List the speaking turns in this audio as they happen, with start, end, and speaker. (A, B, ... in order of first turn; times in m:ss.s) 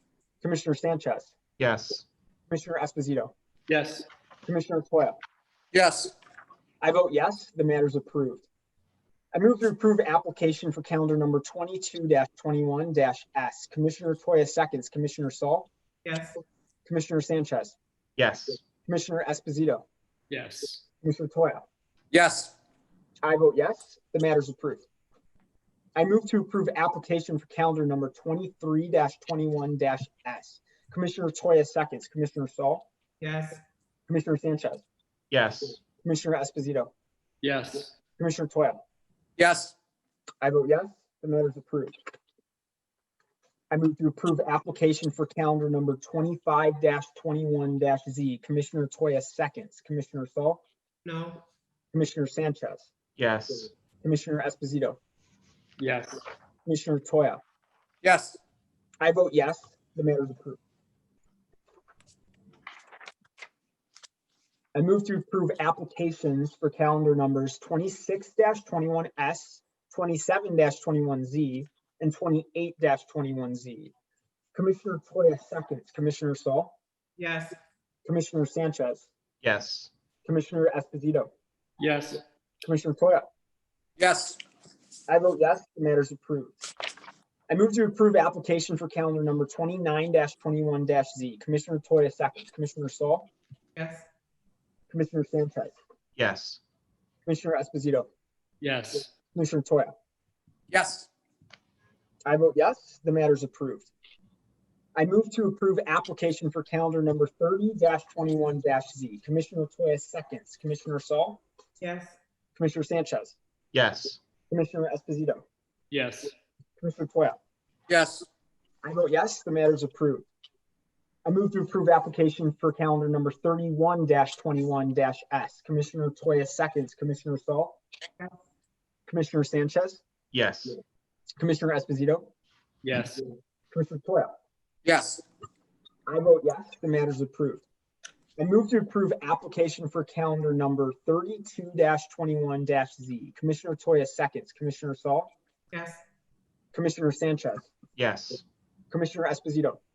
0:00.4-0:01.3 A
0:01.6-0:02.1 B
0:02.5-0:03.3 A
0:03.7-0:04.1 C
0:04.5-0:05.2 A
0:05.7-0:06.1 D
0:06.8-0:08.5 A
0:09.3-0:15.7 A
0:16.0-0:16.4 E
0:16.9-0:17.8 A
0:18.2-0:18.6 B
0:18.9-0:19.8 A
0:20.3-0:20.8 C
0:21.0-0:21.7 A
0:22.1-0:22.5 D
0:23.2-0:24.8 A
0:26.0-0:32.9 A
0:33.2-0:33.6 E
0:34.1-0:34.8 A
0:35.3-0:35.8 B
0:36.0-0:36.9 A
0:37.4-0:37.9 C
0:38.2-0:38.8 A
0:39.4-0:39.7 D
0:40.4-0:42.0 A
0:43.7-0:50.6 A
0:51.0-0:51.4 E
0:51.9-0:52.9 A
0:53.2-0:53.7 B
0:54.0-0:55.0 A
0:55.8-0:56.2 C
0:56.7-0:57.4 A
0:58.0-0:58.4 D
0:59.0-1:00.6 A
1:04.8-1:13.9 A
1:14.5-1:16.8 A
1:17.2-1:17.6 E
1:18.0-1:19.1 A
1:19.4-1:19.9 B
1:20.3-1:21.3 A
1:21.8-1:22.2 C
1:22.6-1:23.3 A
1:24.0-1:24.4 D
1:25.1-1:26.6 A
1:27.5-1:33.3 A
1:33.8-1:34.0 E
1:34.9-1:35.8 A
1:36.2-1:36.6 B
1:37.3-1:38.1 A
1:38.6-1:39.1 C
1:39.3-1:40.0 A
1:40.7-1:41.1 D
1:42.3-1:43.9 A
1:45.0-1:51.4 A
1:51.8-1:52.2 E
1:52.6-1:53.4 A
1:53.7-1:54.2 B
1:54.5-1:55.4 A
1:55.9-1:56.3 C
1:56.8-1:57.4 A
1:57.9-1:58.3 D
1:58.8-2:00.3 A
2:01.3-2:07.8 A
2:09.1-2:10.0 A
2:10.3-2:10.8 B
2:11.4-2:12.3 A
2:12.8-2:13.2 C
2:13.7-2:14.3 A
2:14.8-2:15.2 D
2:16.1-2:17.6 A
2:18.4-2:25.3 A
2:25.7-2:26.0 E
2:26.7-2:27.7 A
2:28.0-2:28.4 B
2:28.9-2:29.8 A